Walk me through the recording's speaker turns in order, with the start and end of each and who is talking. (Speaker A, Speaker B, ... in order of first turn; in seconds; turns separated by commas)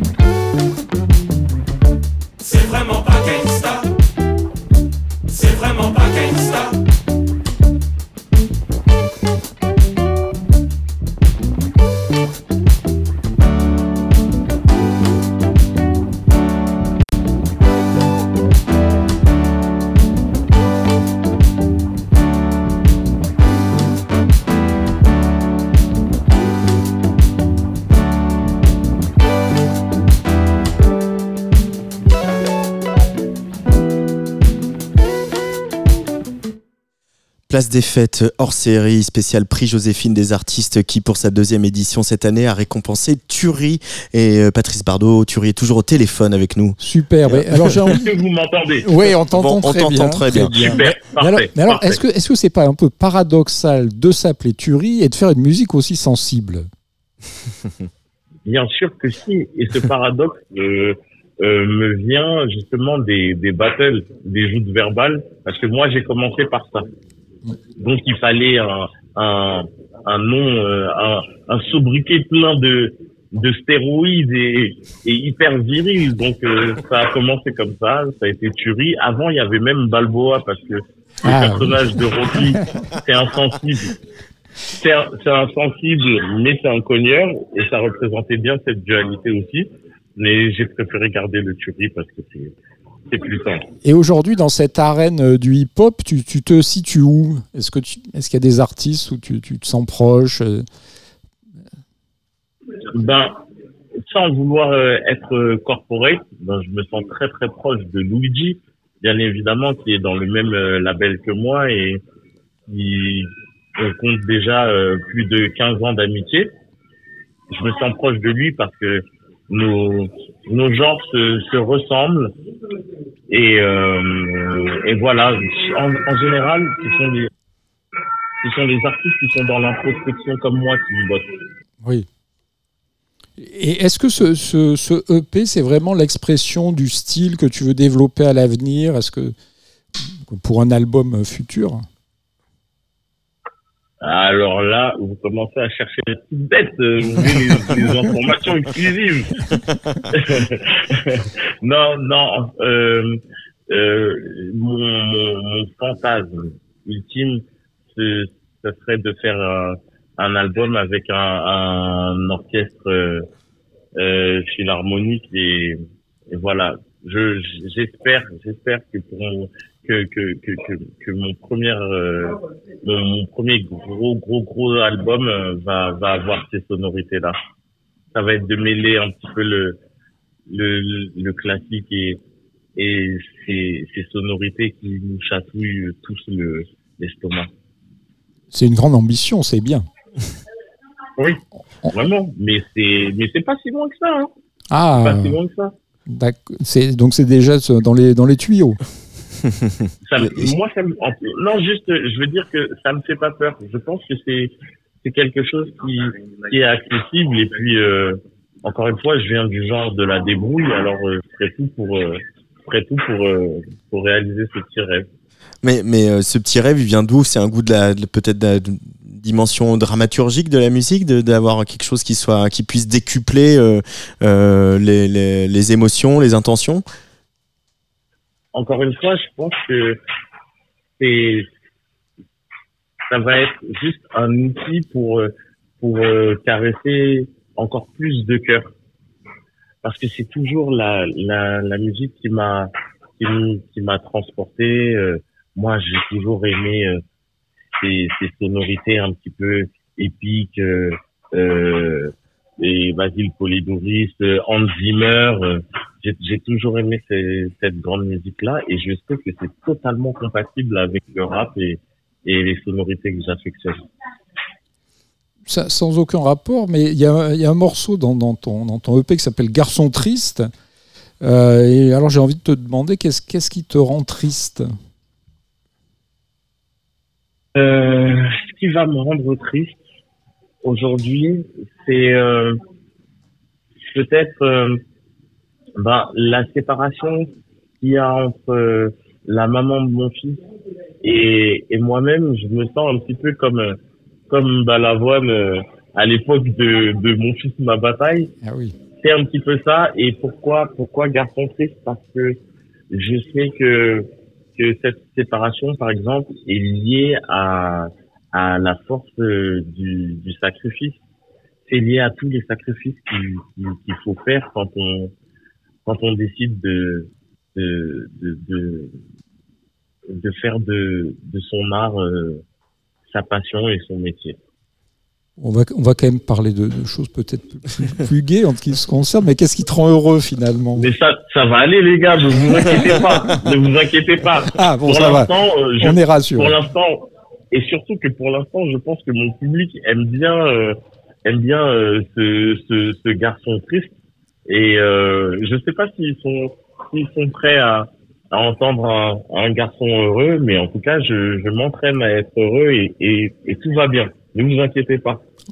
Speaker A: 37.5-47.7, Speaker B: 46.8-48.1, Speaker C: 47.9-49.0, Speaker B: 48.8-56.7, Speaker A: 49.3-50.8, Speaker C: 50.6-52.0, Speaker C: 58.5-66.9, Speaker C: 67.8-84.0, Speaker B: 81.2-82.6, Speaker C: 84.7-92.5, Speaker C: 93.1-93.7, Speaker B: 93.8-100.7, Speaker C: 102.9-103.4, Speaker C: 104.0-112.0, Speaker C: 112.7-116.5, Speaker C: 117.5-122.3, Speaker C: 123.3-127.3, Speaker C: 128.4-131.4, Speaker B: 133.4-139.3, Speaker B: 140.0-141.9, Speaker C: 144.0-149.6, Speaker C: 150.1-163.3, Speaker C: 164.0-165.8, Speaker C: 166.3-177.4, Speaker C: 178.1-179.8, Speaker C: 180.5-182.2, Speaker C: 182.8-187.5, Speaker B: 188.5-189.9, Speaker C: 191.2-194.3, Speaker B: 194.7-195.4, Speaker C: 195.0-195.7, Speaker B: 196.1-198.8, Speaker A: 199.4-200.6, Speaker C: 200.0-215.1, Speaker A: 215.6-226.8, Speaker C: 228.5-230.0, Speaker C: 231.0-231.5, Speaker C: 233.1-238.7, Speaker C: 239.8-247.0, Speaker C: 247.8-263.8, Speaker B: 265.5-270.5, Speaker B: 271.2-274.7, Speaker C: 277.6-279.8, Speaker C: 280.6-282.6, Speaker C: 283.8-284.8, Speaker C: 285.8-290.4, Speaker C: 291.0-298.3, Speaker B: 298.4-298.8, Speaker C: 299.0-302.4, Speaker C: 302.9-311.0, Speaker C: 311.7-315.1, Speaker C: 315.9-319.0, Speaker C: 320.1-322.4, Speaker C: 323.1-324.4, Speaker B: 325.4-330.9, Speaker C: 330.8-343.9, Speaker B: 334.6-336.6, Speaker C: 344.5-355.2